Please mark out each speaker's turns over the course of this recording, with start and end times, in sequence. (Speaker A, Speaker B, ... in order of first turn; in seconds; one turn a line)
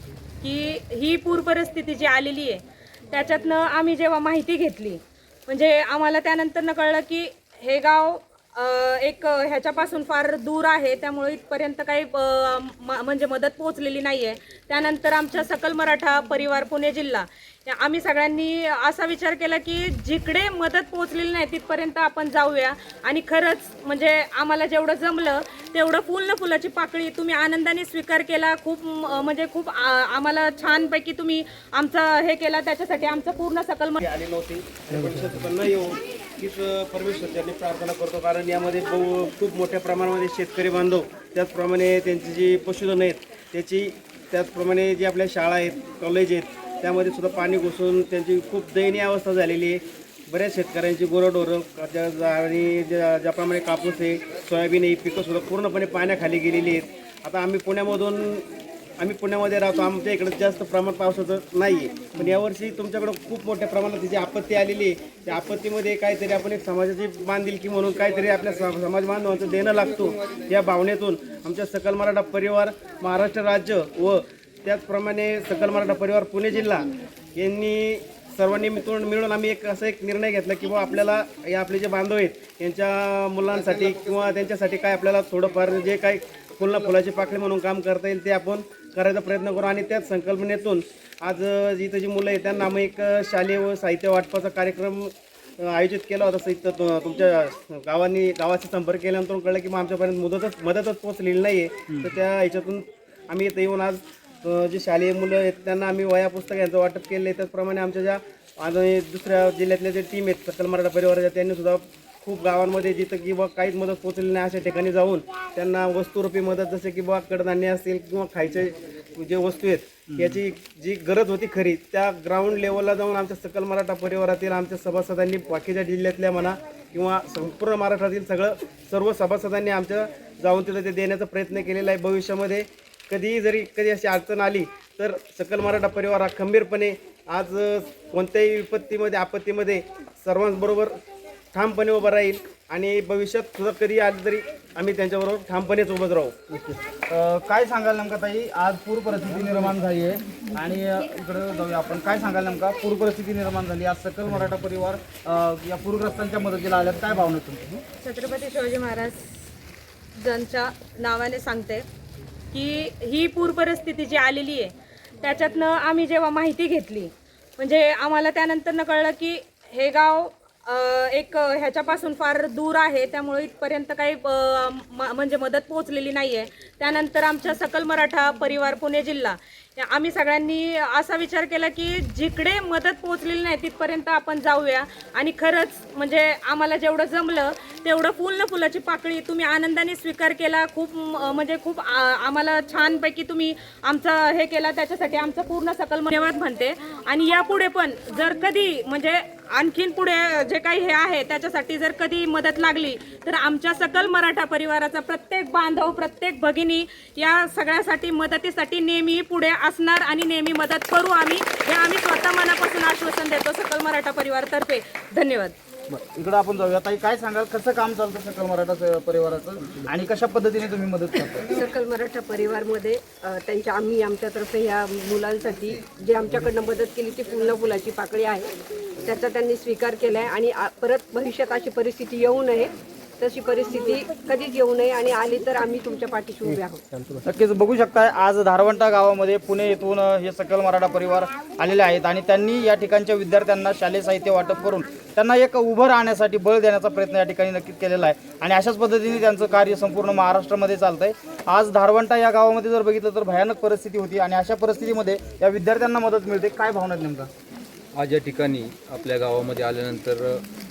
Speaker A: 0.4-34.0
Speaker B: 34.0-58.5
Speaker B: 59.0-141.0
Speaker C: 62.1-62.4
Speaker C: 120.1-120.4
Speaker B: 141.5-146.3
Speaker C: 146.5-157.8
Speaker A: 158.0-159.3
Speaker A: 160.1-161.8
Speaker A: 162.5-215.6
Speaker C: 215.9-221.6
Speaker D: 223.8-228.5
Speaker D: 229.1-229.8
Speaker D: 230.9-231.3
Speaker D: 232.0-232.7
Speaker D: 233.2-236.7
Speaker C: 237.2-257.3
Speaker E: 257.9-260.4